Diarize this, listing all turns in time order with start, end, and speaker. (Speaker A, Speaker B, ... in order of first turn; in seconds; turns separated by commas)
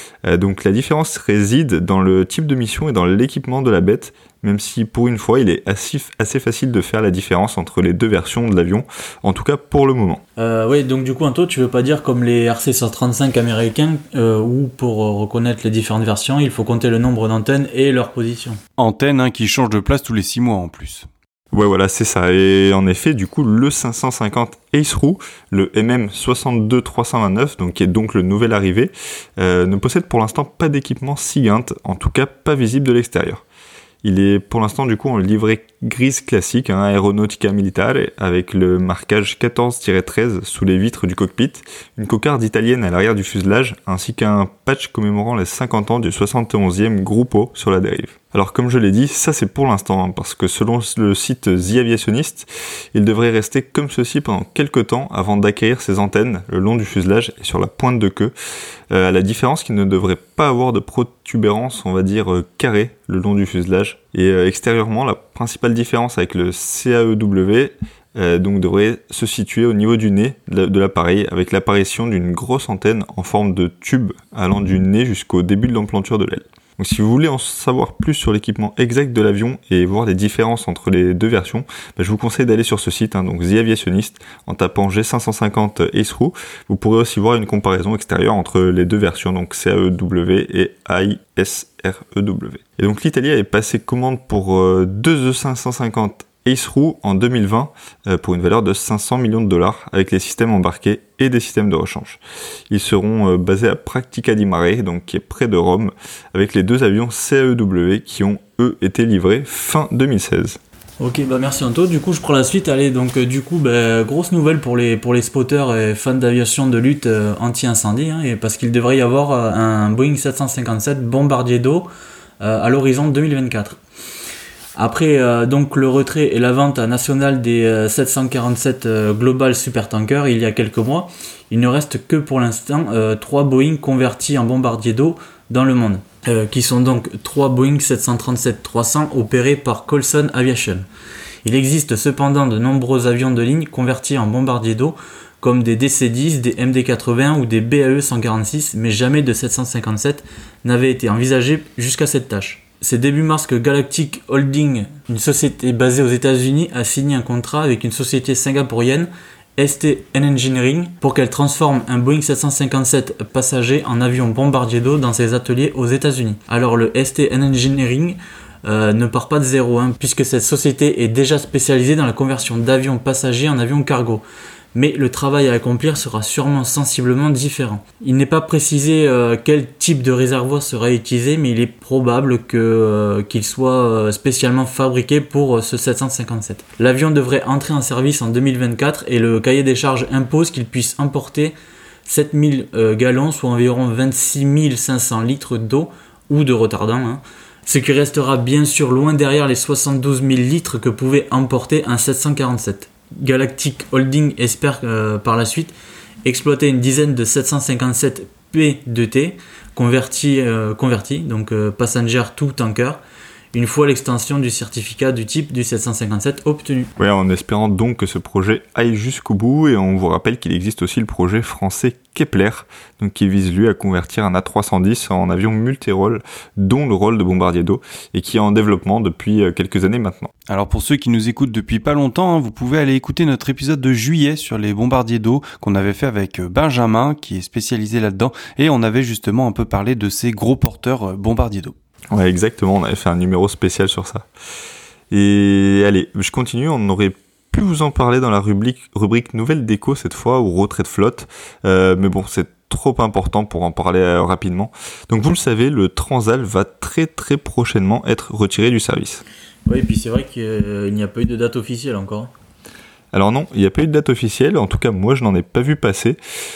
Speaker A: 0.2-10.2, Speaker B: 10.4-18.6, Speaker C: 18.8-21.1, Speaker A: 21.5-33.4, Speaker A: 34.0-58.3, Speaker A: 58.9-110.6, Speaker B: 111.0-121.9, Speaker B: 122.4-123.8, Speaker B: 124.8-140.9, Speaker B: 141.4-174.2, Speaker B: 174.8-191.5, Speaker B: 192.1-205.7, Speaker B: 206.2-213.0, Speaker B: 213.5-216.9, Speaker A: 217.0-230.3, Speaker C: 230.5-241.8, Speaker A: 242.1-244.3, Speaker A: 245.1-259.2, Speaker B: 259.7-262.3, Speaker A: 263.1-266.2